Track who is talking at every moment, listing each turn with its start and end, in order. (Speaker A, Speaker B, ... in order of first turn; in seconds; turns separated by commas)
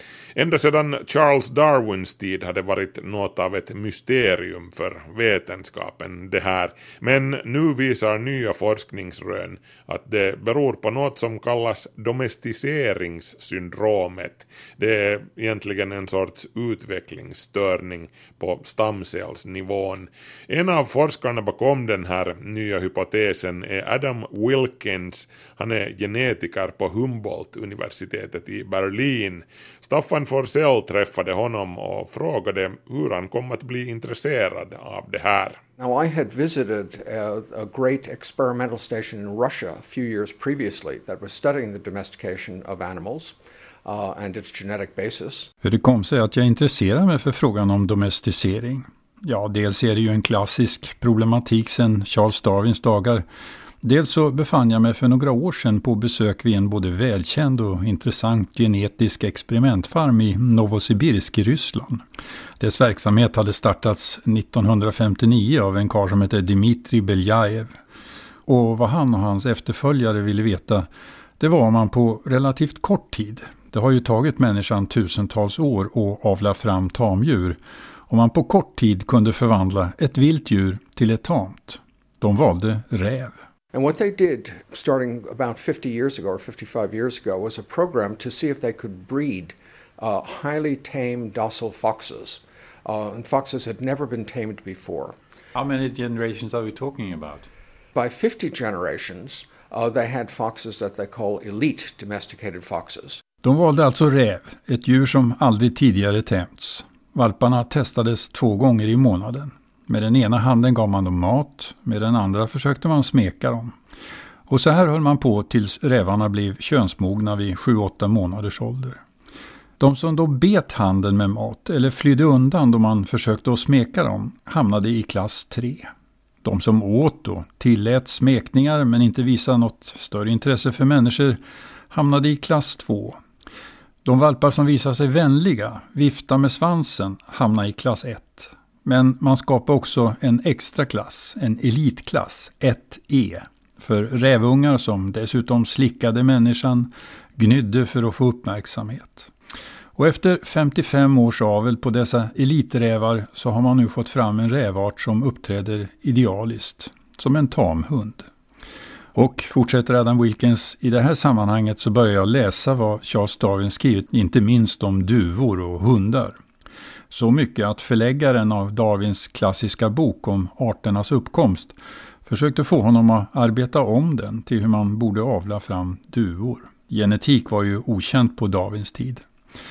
Speaker A: 0.4-35.6, Speaker B: 35.8-45.5, Speaker C: 45.6-53.2, Speaker C: 53.8-62.0, Speaker C: 62.6-67.7, Speaker C: 68.5-70.9, Speaker C: 71.4-77.6, Speaker C: 78.1-83.4, Speaker B: 83.7-95.2, Speaker C: 95.5-97.4, Speaker B: 97.9-103.2, Speaker C: 103.4-113.7, Speaker C: 114.5-119.0, Speaker C: 119.8-125.9, Speaker C: 126.4-131.4, Speaker C: 131.9-133.2, Speaker C: 134.1-149.3, Speaker C: 150.0-158.3, Speaker C: 159.2-166.4, Speaker C: 167.1-171.8, Speaker C: 172.3-179.2